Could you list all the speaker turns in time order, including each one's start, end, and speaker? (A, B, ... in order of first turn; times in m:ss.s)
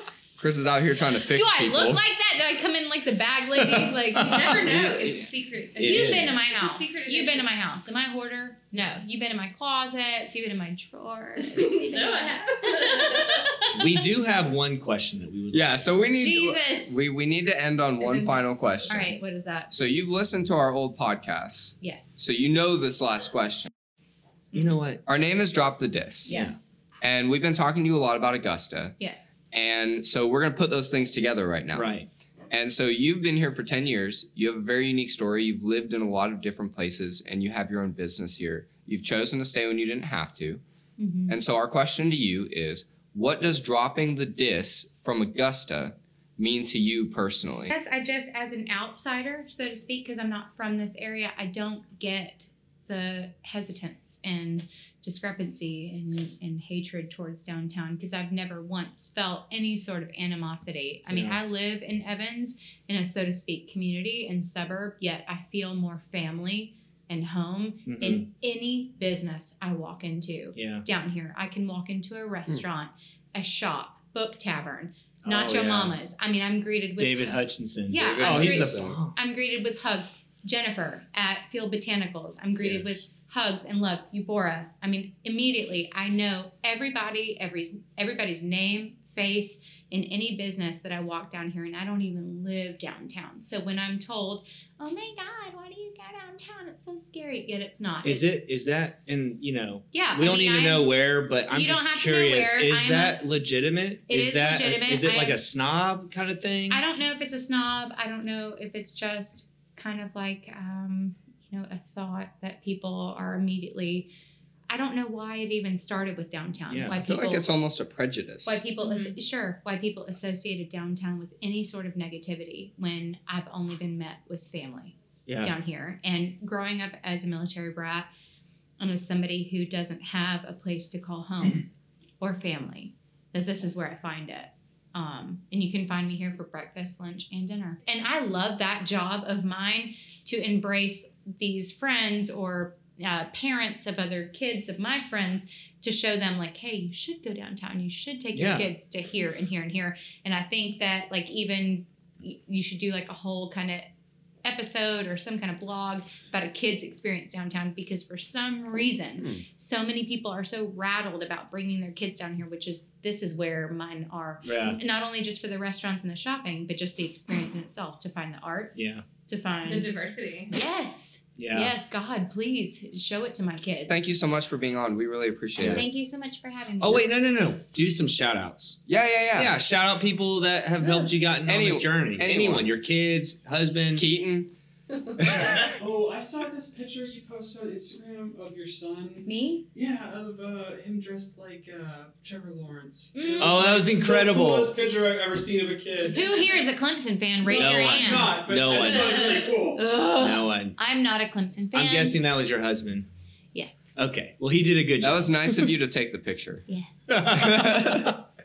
0:00.4-0:02.0 A
0:01.3-0:05.2 B
0:04.2-0:04.8 C
0:04.2-0:07.5 D
0:05.8-0:06.4 C
0:05.8-0:13.5 B
0:11.5-0:13.5 D
0:13.7-0:16.0 C
0:15.5-0:19.2 A
0:16.0-0:17.0 B
0:18.0-0:18.4 B
0:18.9-0:19.7 B
0:19.7-0:23.7 A
0:21.8-0:22.2 B
0:24.5-0:24.8 B
0:24.5-0:25.0 C
0:25.0-0:26.3 A
0:26.2-0:26.7 B
0:26.3-0:26.5 C
0:27.0-0:29.0 A
0:29.0-0:29.4 B
0:29.5-0:31.9 A
0:31.7-0:32.1 C
0:32.5-0:40.6 A
0:41.0-0:41.4 B
0:41.3-0:47.7 A
0:47.7-1:17.4 B
1:01.1-1:01.4 C
1:07.8-1:08.3 C
1:10.5-1:10.8 C
1:15.2-1:16.0 C
1:17.0-1:19.1 C
1:17.9-1:38.3 B
1:18.0-1:19.0 A
1:22.6-1:23.0 C
1:38.0-1:46.8 C
1:39.9-1:40.9 B
1:41.5-1:43.2 B
1:44.1-1:45.4 B
1:46.7-1:54.1 B
1:54.7-1:57.5 B
1:56.7-1:57.0 C
1:57.0-1:58.6 A
1:58.4-2:08.1 B
1:58.8-1:59.1 D
2:05.3-2:05.5 C
2:08.8-2:11.6 B
2:12.2-2:33.9 B
2:28.3-2:28.7 C
2:34.4-2:49.9 B
2:44.4-2:44.8 C
2:48.7-2:49.0 C
2:49.6-2:50.5 D
2:50.5-2:53.9 B
2:51.4-2:51.7 C
2:53.9-2:55.8 A
2:55.6-2:55.8 C
2:55.6-2:57.1 B
2:56.8-2:58.8 C
2:58.8-2:59.6 A
2:59.3-3:04.0 C
3:00.8-3:01.1 B
3:01.4-3:02.7 A
3:03.9-3:04.5 A
3:05.3-3:16.6 E
3:09.2-3:09.6 B
3:13.1-3:13.8 B
3:13.4-3:14.7 C
3:16.1-3:22.2 B
3:17.5-3:19.9 E
3:17.5-3:19.2 C
3:20.2-3:20.8 C
3:21.7-3:23.1 C
3:23.5-3:23.9 B
3:24.0-3:25.7 C
3:25.0-3:26.6 A
3:26.7-3:27.2 B
3:27.1-3:28.1 C